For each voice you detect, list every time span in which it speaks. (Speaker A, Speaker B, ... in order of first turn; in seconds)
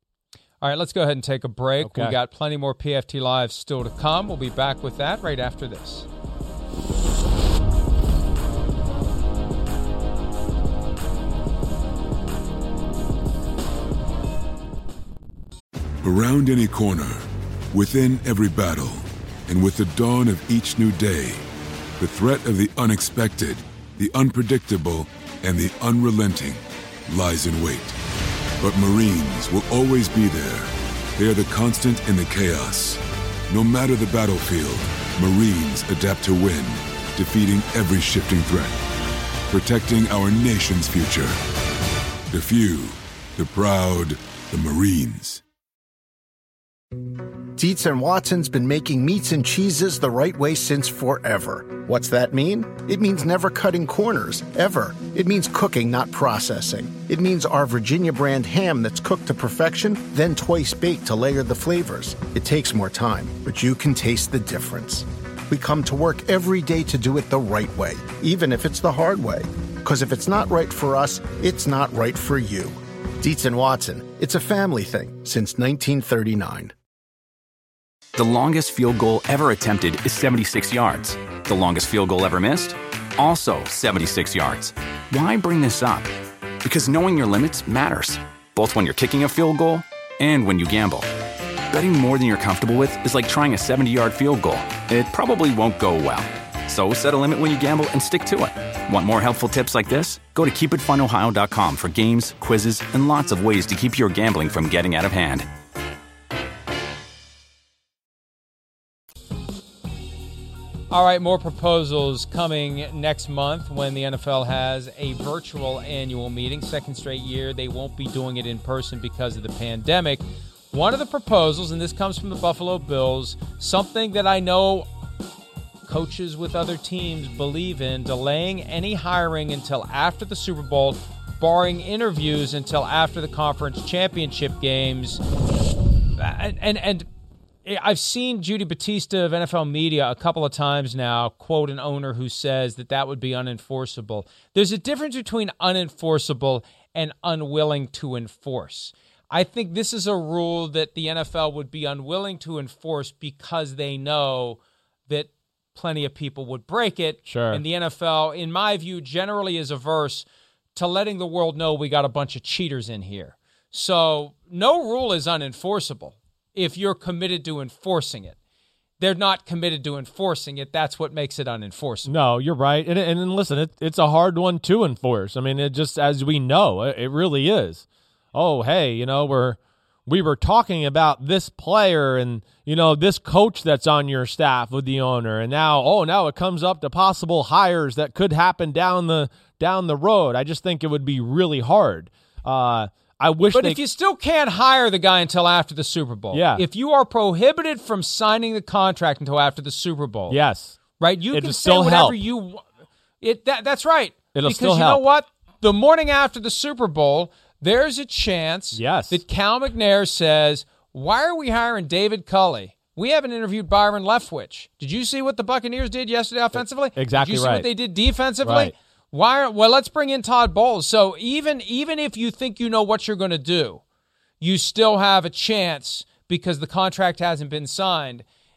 Speaker A: 0.6-6.1, 110.9-124.9, 125.9-135.2, 136.2-137.1, 137.7-168.4, 169.0-172.1, 193.5-200.4, 201.0-202.7, 203.2-223.8, 224.4-228.2
Speaker B: 1.8-2.1, 157.3-157.6, 172.1-193.8, 196.3-196.6, 200.3-200.8, 201.3-202.2, 204.3-205.0, 208.7-209.2, 216.6-217.7, 218.4-218.7
Speaker C: 16.0-21.4, 22.0-28.0, 28.6-38.8, 39.5-41.4, 42.3-45.4
Speaker D: 47.6-76.7
Speaker E: 78.2-86.1, 86.6-91.1, 91.7-105.5